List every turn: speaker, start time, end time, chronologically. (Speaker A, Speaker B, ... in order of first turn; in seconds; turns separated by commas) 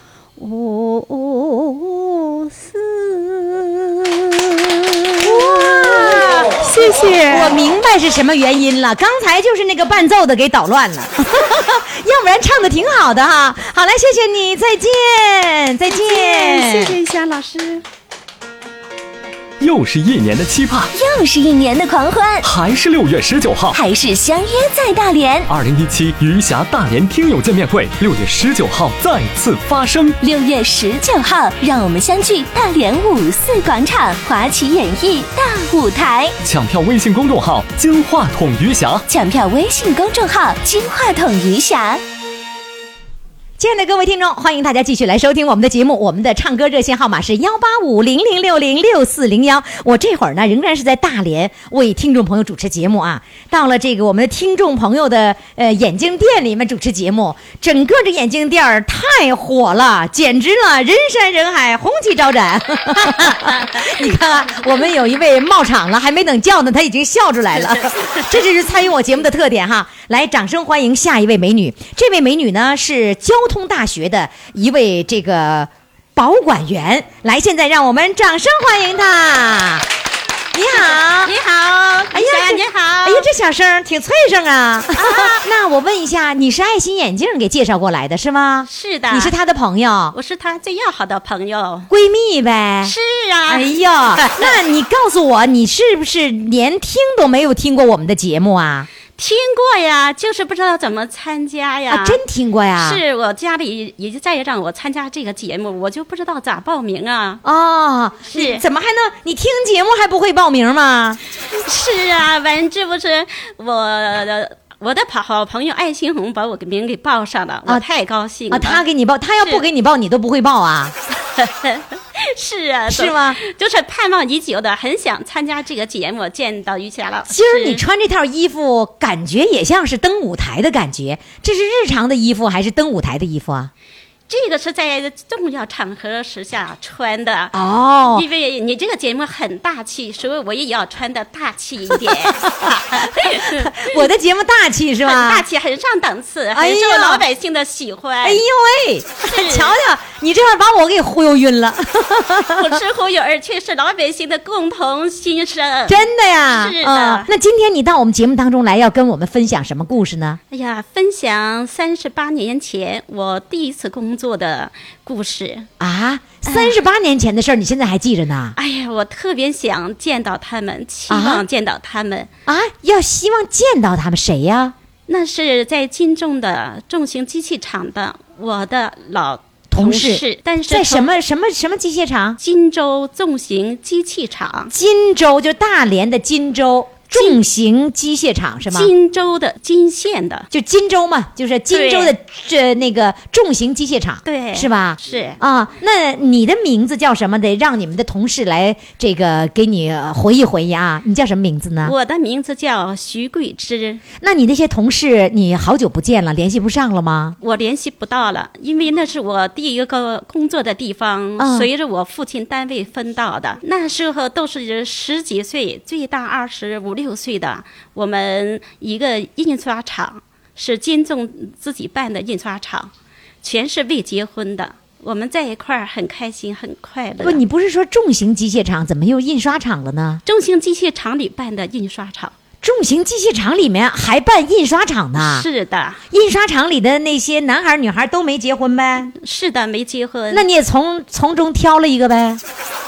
Speaker A: 0.4-7.6, Speaker B: 5.2-6.5, Speaker B: 7.3-16.9, Speaker A: 15.9-17.8, Speaker C: 19.6-20.9, Speaker D: 20.9-22.5, Speaker C: 22.4-23.8, Speaker D: 23.7-25.5, Speaker C: 25.5-30.2, Speaker D: 30.2-36.4, Speaker C: 36.4-39.0, Speaker D: 39.1-42.0, Speaker B: 43.6-79.9, Speaker E: 63.1-63.9, Speaker B: 80.5-81.4, Speaker E: 80.8-83.3, Speaker B: 82.1-90.2, Speaker E: 85.0-85.4, Speaker E: 88.7-89.3, Speaker E: 90.1-91.9, Speaker B: 91.9-93.0, Speaker E: 92.8-94.6, Speaker B: 93.5-98.9, Speaker E: 99.2-102.2, Speaker B: 101.9-103.0, Speaker E: 102.8-107.4, Speaker B: 107.4-111.2, Speaker E: 108.3-108.6, Speaker E: 111.5-118.8, Speaker B: 118.5-121.0, Speaker E: 121.3-127.8, Speaker B: 122.9-123.4, Speaker B: 127.3-133.7, Speaker E: 134.3-137.5, Speaker B: 137.5-138.3, Speaker E: 138.1-144.0, Speaker B: 142.1-145.5, Speaker E: 145.0-148.4, Speaker B: 146.5-147.2, Speaker B: 148.2-152.8, Speaker E: 149.2-149.8, Speaker E: 152.6-157.3, Speaker B: 155.9-160.4, Speaker E: 160.5-165.7, Speaker B: 165.8-168.6, Speaker E: 166.5-166.8, Speaker E: 168.6-172.3, Speaker B: 171.1-171.4, Speaker B: 172.5-174.8, Speaker E: 175.1-181.1, Speaker B: 179.7-182.4, Speaker E: 182.4-184.7, Speaker B: 184.7-188.9, Speaker E: 187.1-187.4, Speaker E: 188.7-190.5, Speaker B: 190.5-201.9, Speaker E: 191.7-192.2, Speaker E: 194.3-195.4, Speaker E: 201.8-204.0, Speaker B: 204.2-207.4, Speaker E: 207.4-222.9, Speaker B: 211.4-211.7, Speaker E: 223.4-227.4, Speaker B: 227.2-230.2, Speaker E: 230.3-232.3, Speaker B: 232.6-235.5, Speaker E: 235.2-236.0, Speaker B: 236.1-239.1, Speaker E: 239.2-240.5, Speaker B: 240.3-242.4